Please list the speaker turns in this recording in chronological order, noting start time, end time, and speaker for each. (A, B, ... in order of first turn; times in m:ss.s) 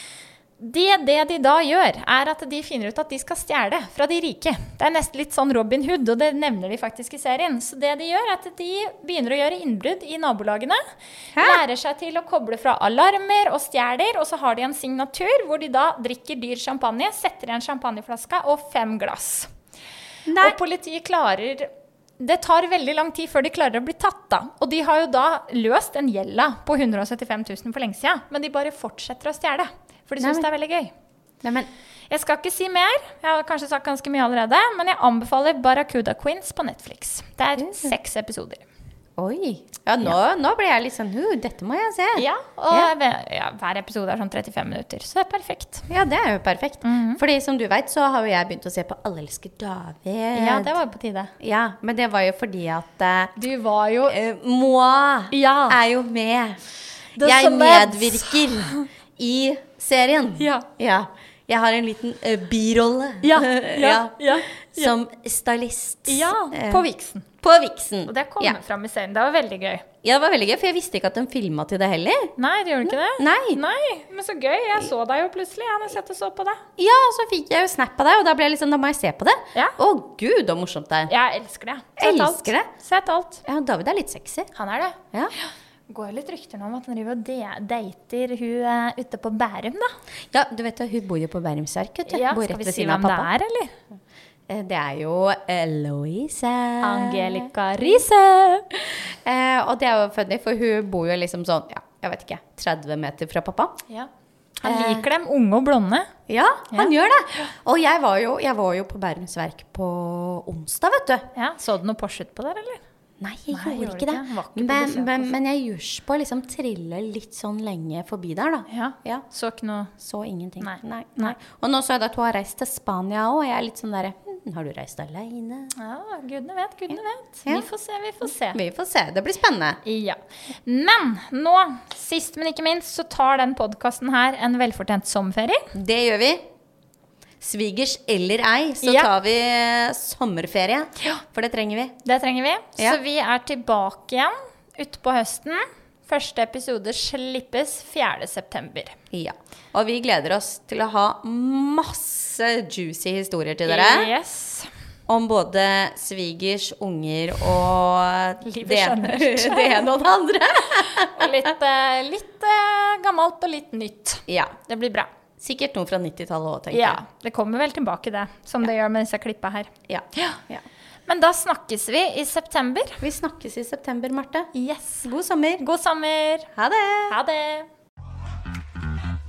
0:00.6-0:10.8 A
0:11.4-0:11.6 B
0:11.4-0:19.5 A
0:20.3-0:20.6 B
0:20.4-0:30.9 A
0:30.2-0:30.5 B
0:31.4-0:31.7 B
0:32.1-0:38.6 A
0:37.6-0:37.9 B
0:39.2-0:42.9 B
0:42.2-0:45.9 A
0:45.9-0:50.8 B
0:46.8-0:47.2 A
0:50.3-0:51.3 A
0:51.4-0:53.4 B
0:53.4-0:54.2 A
0:54.1-0:56.6 B
0:55.3-0:55.8 A
0:57.2-0:58.9 A
0:57.2-1:06.8 B
1:00.4-1:00.7 A
1:03.2-1:05.0 A
1:06.1-1:07.3 A
1:07.4-1:08.6 B
1:08.1-1:09.9 A
1:10.0-1:13.6 B
1:12.4-1:16.6 A
1:16.8-1:21.1 B
1:21.1-1:23.4 A
1:22.0-1:22.7 B
1:23.5-1:24.5 B
1:24.5-1:29.9 A
1:30.3-1:33.3 B
1:32.1-1:33.7 A
1:34.5-1:38.0 B
1:36.8-1:38.7 A
1:38.7-1:43.8 B
1:44.6-1:46.1 A
1:44.6-1:45.0 B
1:46.3-1:51.3 B
1:46.7-1:47.5 A
1:51.4-1:52.8 A
1:53.2-1:59.2 B
1:53.5-1:55.3 A
1:58.7-1:59.9 A
2:00.0-2:05.7 B
2:00.6-2:01.4 A
2:05.8-2:08.6 A
2:08.3-2:09.8 B
2:09.8-2:15.7 A
2:15.7-2:16.4 B
2:17.4-2:22.0 B
2:18.8-2:19.1 A
2:22.0-2:29.0 A
2:29.1-2:34.1 B
2:33.7-2:34.7 A
2:35.1-2:41.4 B
2:38.4-2:39.9 A
2:40.7-2:45.1 A
2:44.3-2:44.6 B
2:45.4-2:47.0 B
2:46.7-2:50.4 A
2:49.9-2:50.6 B
2:51.1-2:53.0 A
2:53.0-2:54.5 B
2:54.5-2:56.5 A
2:55.0-2:55.6 B
2:56.6-2:57.2 B
2:57.1-2:57.7 A